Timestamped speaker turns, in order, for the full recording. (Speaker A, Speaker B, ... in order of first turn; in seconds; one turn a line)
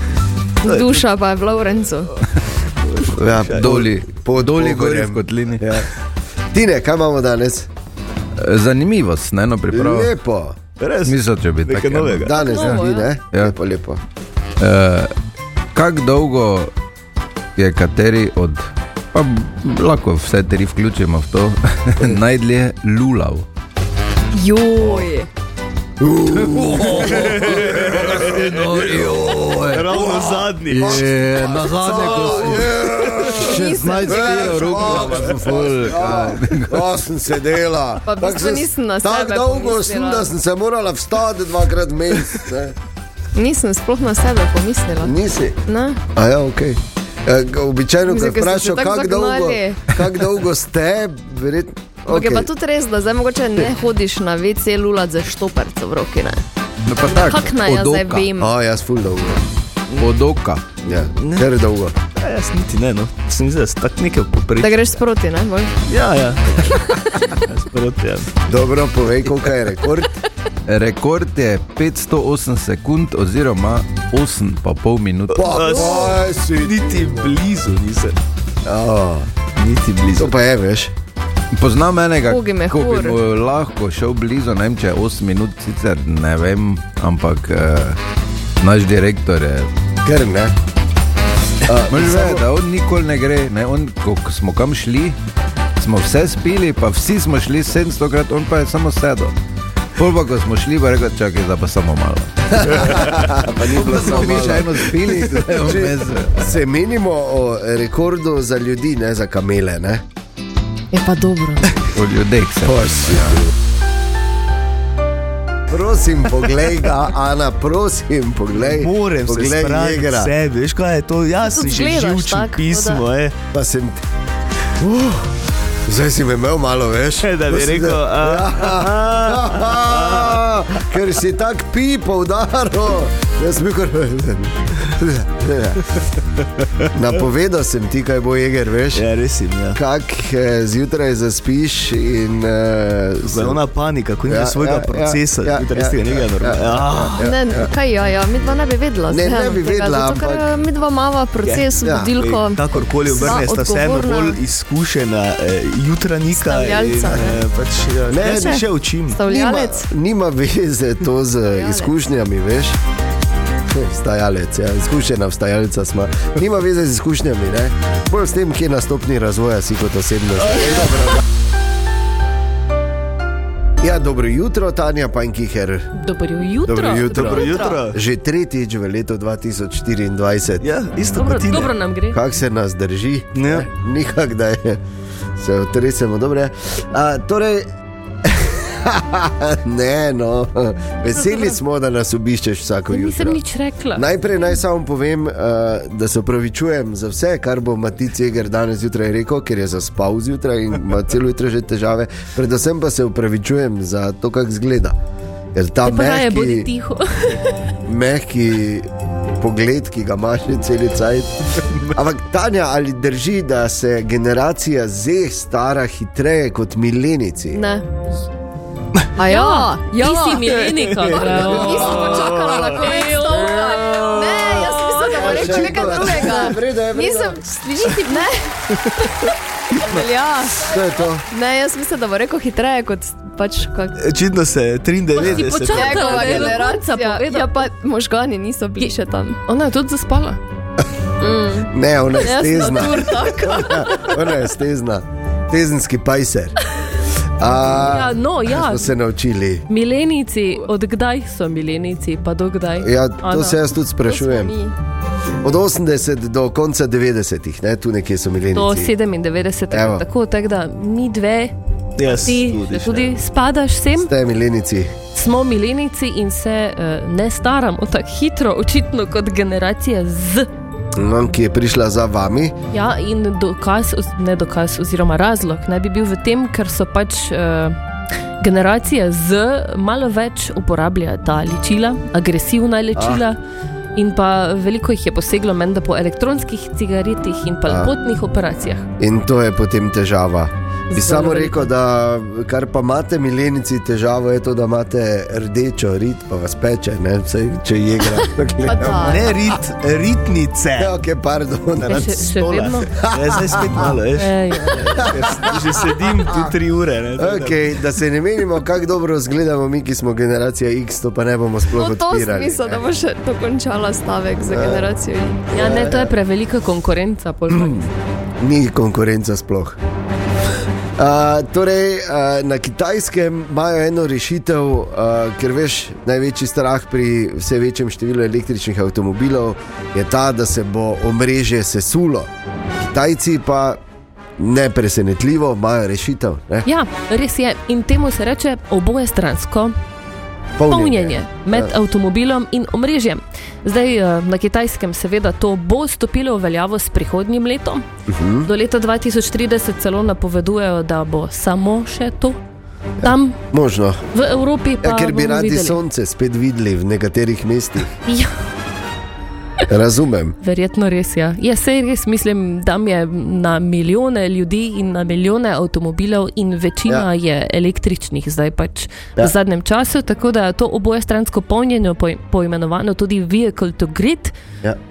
Speaker A: 0.6-2.1
Speaker B: 0.6-1.1
Speaker B: 2.8-3.9
Speaker C: 3.1-5.9
Speaker D: 3.5-5.8
Speaker C: 6.5-7.7
Speaker D: 8.4-10.1
Speaker C: 9.7-10.6
Speaker B: 10.8-12.3
Speaker D: 11.0-12.7
Speaker C: 12.1-14.0
Speaker A: 12.3-13.1
Speaker D: 14.6-15.1
Speaker D: 15.7-16.7
Speaker D: 17.6-23.4
Speaker A: 24.3-25.3
Speaker C: 26.0-29.0
Speaker D: 26.3-30.0
Speaker B: 27.1-32.6
Speaker D: 30.7-36.8
Speaker C: 30.7-42.8
Speaker A: 33.2-35.1
Speaker A: 38.0-40.3
Speaker A: 43.3-46.0
Speaker C: 45.0-45.6
Speaker C: 46.1-52.5
Speaker A: 48.0-49.8
Speaker A: 52.1-56.4
Speaker D: 56.9-58.3
Speaker C: 57.1-57.5
Speaker A: 57.2-58.5
Speaker C: 58.3-59.4
Speaker D: 60.0-60.8
Speaker C: 60.8-62.0
Speaker B: 61.1-61.5
Speaker B: 62.1-65.0
Speaker A: 64.6-65.7
Speaker B: 65.9-68.3
Speaker C: 68.5-70.2
Speaker D: 70.7-75.4
Speaker B: 75.3-78.2
Speaker C: 75.3-77.4
Speaker C: 78.6-79.3
Speaker B: 79.5-80.3
Speaker C: 80.1-80.9
Speaker D: 81.6-88.0
Speaker A: 82.2-83.2
Speaker D: 88.6-89.7
Speaker C: 90.0-90.5
Speaker C: 91.6-92.5
Speaker D: 91.9-95.2
Speaker D: 95.8-99.3
Speaker D: 100.0-106.5
Speaker C: 102.5-110.0
Speaker A: 110.9-111.9
Speaker D: 111.9-113.4
Speaker C: 112.6-113.5
Speaker C: 115.7-120.3
Speaker B: 118.5-123.3
Speaker A: 121.4-123.0
Speaker C: 123.5-124.0
Speaker C: 124.8-136.0
Speaker B: 127.2-130.4
Speaker B: 136.6-136.9
Speaker C: 136.9-139.1
Speaker B: 138.9-139.8
Speaker C: 139.7-143.6
Speaker B: 143.2-147.2
Speaker C: 144.3-147.7
Speaker A: 147.2-154.4
Speaker C: 149.1-150.5
Speaker B: 151.4-159.2
Speaker C: 151.8-152.1
Speaker A: 156.3-157.4
Speaker C: 158.1-158.7
Speaker A: 159.1-159.9
Speaker C: 159.2-162.8
Speaker A: 161.5-162.0
Speaker C: 163.7-171.2
Speaker B: 170.6-170.9
Speaker C: 173.8-175.9
Speaker E: 175.9-177.8
Speaker C: 176.6-180.7
Speaker B: 177.1-178.0
Speaker B: 180.6-181.8
Speaker E: 181.1-182.2
Speaker C: 182.1-184.8
Speaker B: 183.3-183.7
Speaker C: 185.4-187.7
Speaker C: 188.2-193.4
Speaker E: 192.9-194.0
Speaker C: 193.9-205.0
Speaker C: 205.5-206.7
Speaker E: 205.8-207.6
Speaker C: 207.8-208.9
Speaker C: 209.4-217.6
Speaker A: 217.5-217.8
Speaker A: 219.2-228.8
Speaker E: 219.2-224.1
Speaker B: 220.7-222.8
Speaker E: 224.6-225.3
Speaker C: 225.2-227.4
Speaker B: 225.8-226.1
Speaker A: 229.7-234.0
Speaker C: 230.6-231.2
Speaker B: 234.0-236.6
Speaker E: 235.1-237.6
Speaker A: 235.2-239.4
Speaker E: 239.5-240.4
Speaker A: 241.2-244.2
Speaker C: 241.7-246.6
Speaker C: 247.4-249.7
Speaker E: 247.8-248.9
Speaker E: 249.7-253.6
Speaker C: 252.8-254.5
Speaker A: 254.1-254.7
Speaker C: 255.4-258.9
Speaker E: 258.5-261.5
Speaker C: 259.7-260.0
Speaker B: 262.0-263.2
Speaker E: 262.1-264.1
Speaker C: 263.9-264.9
Speaker E: 265.1-270.5
Speaker C: 270.9-272.6
Speaker E: 272.7-277.8
Speaker E: 278.4-283.4
Speaker C: 282.9-283.2
Speaker E: 283.9-288.9
Speaker C: 287.6-287.9
Speaker C: 289.0-299.3
Speaker E: 290.9-291.7
Speaker A: 298.6-299.2
Speaker B: 299.0-301.0
Speaker C: 300.8-302.4
Speaker B: 301.8-307.7
Speaker E: 301.9-302.9
Speaker C: 302.9-303.9
Speaker E: 304.1-305.0
Speaker C: 305.0-306.5
Speaker C: 307.2-312.8
Speaker A: 311.7-315.5
Speaker C: 314.4-314.9
Speaker C: 315.5-316.1
Speaker E: 315.5-317.9
Speaker C: 317.5-317.8
Speaker C: 318.4-319.8
Speaker C: 321.0-333.8
Speaker C: 334.4-336.7
Speaker E: 336.6-339.7
Speaker C: 340.6-341.7
Speaker E: 340.7-347.9
Speaker C: 348.1-348.5
Speaker E: 348.4-352.4
Speaker E: 353.0-353.4
Speaker C: 353.0-354.0
Speaker E: 354.1-355.8
Speaker C: 354.8-358.0
Speaker C: 359.7-360.4
Speaker E: 360.4-374.3